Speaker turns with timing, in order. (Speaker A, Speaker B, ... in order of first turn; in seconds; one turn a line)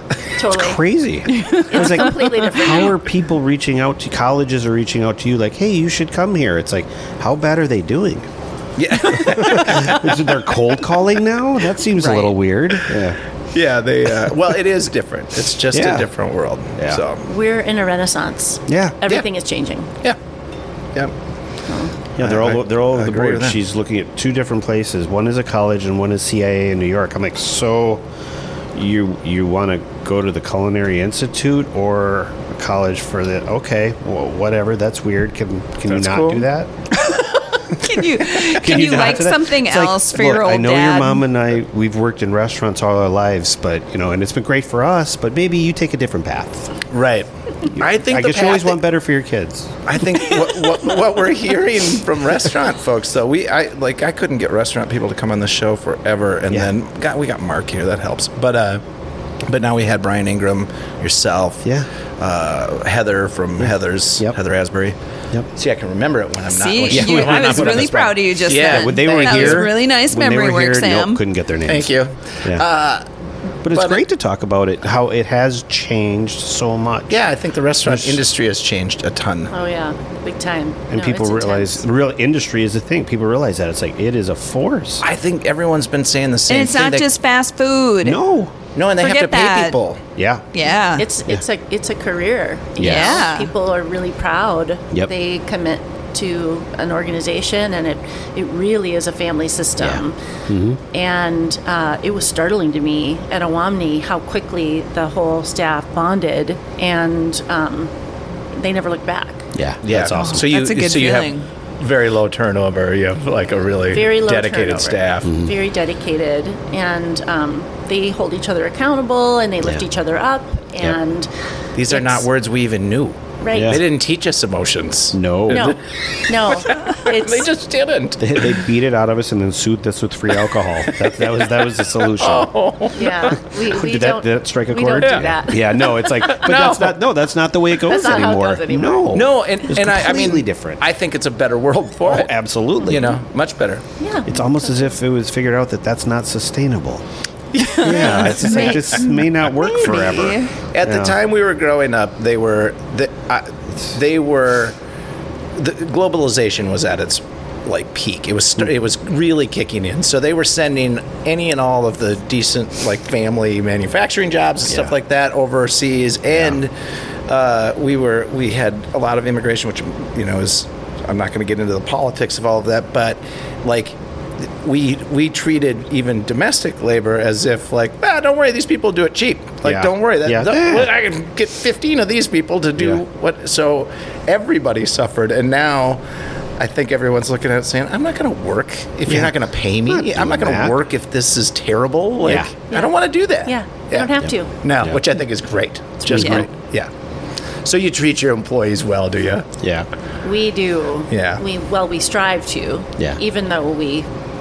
Speaker A: 0.4-0.8
Speaker B: 0.4-8.3
Speaker C: 1.3-2.0
Speaker A: 1.7-2.9
Speaker D: 8.8-10.1
Speaker B: 9.1-13.2
Speaker C: 12.0-12.3
Speaker D: 13.5-17.2
Speaker B: 15.7-16.1
Speaker B: 16.8-17.0
Speaker A: 17.2-19.9
Speaker B: 18.7-19.0
Speaker A: 21.7-21.9
Speaker B: 22.2-28.0
Speaker D: 22.2-23.6
Speaker B: 28.7-36.7
Speaker D: 35.9-36.4
Speaker C: 37.1-41.2
Speaker B: 37.8-46.8
Speaker D: 46.9-48.8
Speaker B: 47.6-49.8
Speaker D: 49.9-58.8
Speaker D: 59.5-65.0
Speaker B: 63.6-64.4
Speaker D: 65.5-69.7
Speaker C: 66.5-71.2
Speaker B: 66.9-68.0
Speaker B: 68.6-72.6
Speaker D: 71.7-73.0
Speaker B: 73.6-77.3
Speaker D: 73.7-74.0
Speaker D: 77.1-79.5
Speaker B: 77.8-78.2
Speaker A: 79.5-81.8
Speaker B: 80.9-85.0
Speaker D: 85.0-87.1
Speaker C: 86.5-88.2
Speaker B: 88.0-88.5
Speaker D: 88.8-90.0
Speaker C: 89.0-89.8
Speaker B: 90.2-90.4
Speaker C: 90.5-91.0
Speaker A: 90.6-100.2
Speaker B: 92.8-93.3
Speaker C: 92.8-93.5
Speaker B: 99.8-100.8
Speaker A: 100.9-107.9
Speaker A: 108.5-109.5
Speaker B: 109.5-110.5
Speaker D: 109.8-115.5
Speaker C: 110.1-111.5
Speaker A: 113.9-121.3
Speaker B: 115.2-115.5
Speaker D: 121.8-128.6
Speaker A: 121.9-122.2
Speaker A: 123.4-123.8
Speaker B: 123.5-123.9
Speaker B: 125.1-125.8
Speaker A: 125.5-127.5
Speaker B: 128.2-132.5
Speaker D: 131.0-133.4
Speaker A: 132.9-136.5
Speaker B: 133.3-140.8
Speaker D: 136.3-137.0
Speaker A: 137.8-139.2
Speaker D: 139.1-142.3
Speaker B: 142.0-143.1
Speaker D: 142.8-143.9
Speaker A: 144.0-144.9
Speaker B: 144.2-147.0
Speaker D: 147.6-148.8
Speaker C: 147.7-150.5
Speaker B: 147.8-151.2
Speaker A: 148.5-148.8
Speaker D: 150.7-154.8
Speaker D: 155.5-166.7
Speaker B: 164.6-164.9
Speaker B: 166.3-166.6
Speaker D: 167.3-186.0
Speaker B: 179.6-180.9
Speaker B: 182.8-183.0
Speaker D: 186.6-196.9
Speaker B: 189.1-189.3
Speaker B: 189.9-190.8
Speaker B: 192.2-192.5
Speaker A: 193.4-194.5
Speaker B: 194.2-195.0
Speaker B: 196.1-196.5
Speaker C: 196.1-196.4
Speaker D: 197.6-199.5
Speaker B: 199.6-199.9
Speaker A: 200.2-204.1
Speaker D: 201.1-201.4